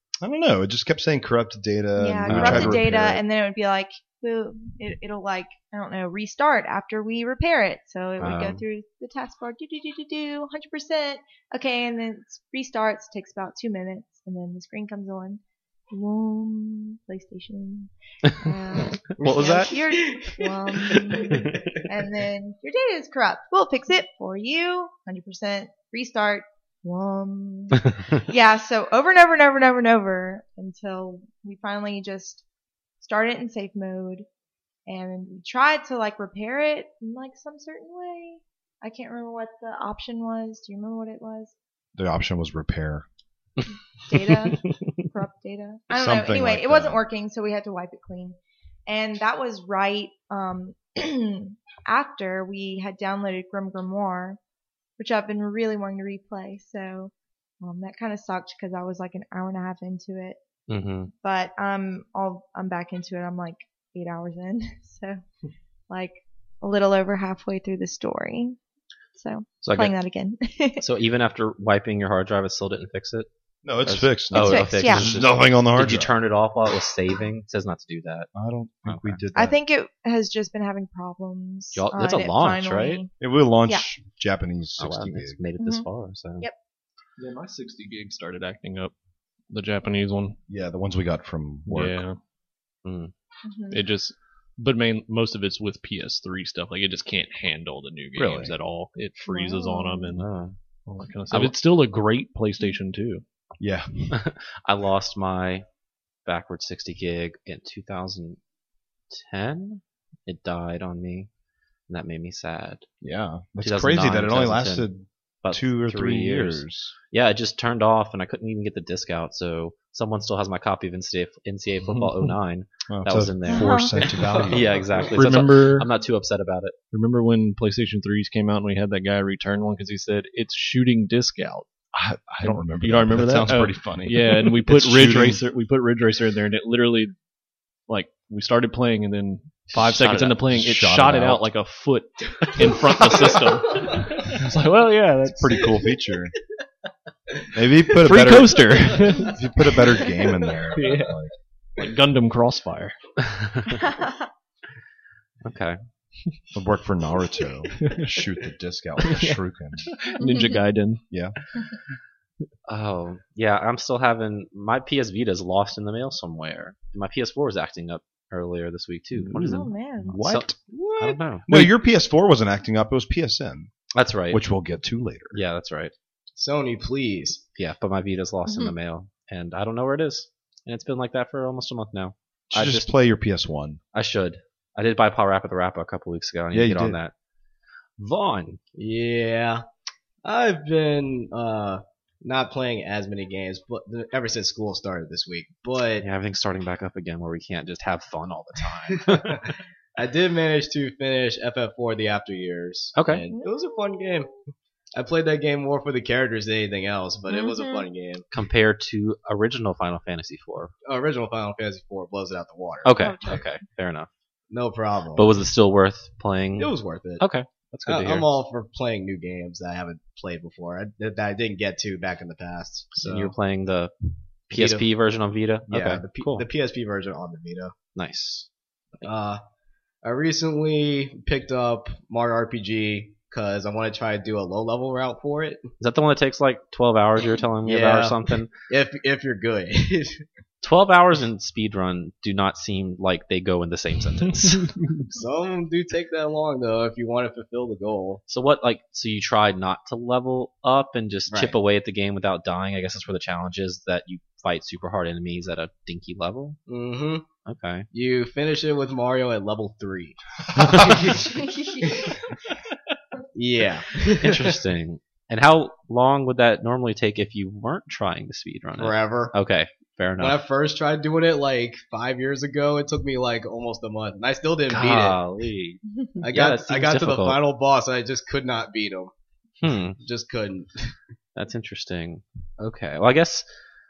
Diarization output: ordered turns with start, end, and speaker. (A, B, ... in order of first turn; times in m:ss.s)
0:00.2-0:03.2 A
0:02.0-0:32.4 B
0:02.2-0:02.8 C
0:08.2-0:08.6 C
0:19.2-0:21.6 D
0:19.2-0:19.6 A
0:19.4-0:19.7 C
0:33.0-0:34.2 B
0:34.9-0:41.5 B
0:41.9-0:43.0 A
0:44.1-0:54.4 B
0:44.3-0:44.6 C
0:45.9-0:47.0 A
0:55.0-1:00.4 B
1:00.7-1:01.1 C
1:01.2-1:05.2 B
1:05.9-1:08.6 B
1:09.1-1:10.8 B
1:09.6-1:09.9 C
1:10.8-1:13.3 C
1:13.6-1:16.1 A
1:13.8-1:18.3 C
1:14.3-1:15.1 B
1:18.3-1:19.6 A
1:18.8-1:19.2 C
1:19.3-1:23.1 B
1:21.8-1:23.0 C
1:23.2-1:25.4 A
1:24.8-1:26.5 C
1:25.6-1:25.8 B
1:27.2-1:28.9 E
1:29.5-1:30.4 E
1:30.5-1:32.0 A
1:31.6-1:32.2 E
1:32.8-1:33.1 C
1:33.4-1:33.8 B
1:33.7-1:40.2 E
1:38.2-1:38.6 A
1:39.3-1:40.1 B
1:40.2-1:40.5 C
1:40.9-1:43.2 E
1:41.3-1:41.6 C
1:43.6-1:44.2 A
1:44.1-1:45.6 C
1:46.2-1:48.4 C
1:49.1-1:51.3 C
1:51.9-1:52.8 C
1:53.0-1:56.9 A
1:53.6-1:54.9 C
1:55.4-2:06.8 C
2:01.8-2:02.3 E
2:02.9-2:05.1 A
2:03.5-2:04.0 B
2:04.1-2:05.1 D
2:05.1-2:05.9 E
2:06.9-2:11.7 E
2:11.9-2:15.4 A
2:12.4-2:17.1 E
2:17.9-2:25.8 E
2:19.7-2:20.4 C
2:20.5-2:21.4 A
2:25.2-2:26.3 A
2:27.5-2:31.3 A
2:28.0-2:29.4 E
2:28.8-2:29.3 D
2:30.0-2:30.5 D
2:30.7-2:31.2 E
2:31.8-2:32.9 E
2:33.2-2:33.8 C
2:33.8-2:34.1 B
2:35.4-2:35.8 C
2:36.5-2:39.9 A
2:37.8-2:38.1 E
2:39.0-2:41.0 E
2:40.2-2:40.6 B
2:41.1-2:41.4 A
2:42.7-2:49.7 C
2:49.1-2:49.7 E
2:49.4-2:50.2 B
2:50.0-2:53.7 A
2:50.2-2:51.5 C
2:53.9-2:54.4 C
2:54.3-2:55.4 A
2:55.3-2:55.9 C
2:56.4-2:57.4 D
2:57.6-3:02.9 C
2:58.5-2:58.7 B
3:02.5-3:03.8 A
3:03.9-3:07.1 C
3:06.5-3:07.0 A
3:08.0-3:08.6 C
3:08.8-3:09.6 D
3:10.2-3:16.1 D
3:16.0-3:19.4 C
3:18.9-3:24.3 D
3:22.9-3:23.2 C
3:24.9-3:28.2 D
3:27.3-3:27.8 B
3:28.3-3:30.7 C
3:30.8-3:33.4 D
3:32.8-3:34.1 C
3:33.0-3:33.4 B
3:34.5-3:35.4 D
3:35.1-3:38.3 C
3:36.6-3:37.2 D
3:37.9-3:43.3 D
3:43.0-3:43.9 C
3:44.5-3:46.4 C
3:44.5-3:44.9 D
3:45.7-3:47.7 D
3:47.9-3:48.5 C
3:49.0-3:49.4 D
3:50.0-3:55.6 D
3:55.8-3:58.5 C
3:57.6-4:00.2 D
4:00.6-4:04.7 C
4:04.5-4:05.0 E
4:05.1-4:08.2 D
4:08.3-4:16.6 C
4:11.3-4:11.5 D
4:16.7-4:17.2 D
4:17.4-4:17.9 C
4:17.9-4:22.3 D
4:20.6-4:21.1 C
4:23.3-4:24.6 D
4:24.2-4:30.4 C
4:28.8-4:29.3 D
4:30.2-4:35.2 D
4:34.7-4:37.4 C
4:36.2-4:39.1 D
4:39.6-4:40.0 C
4:40.0-4:40.9 D
4:41.4-4:43.4 C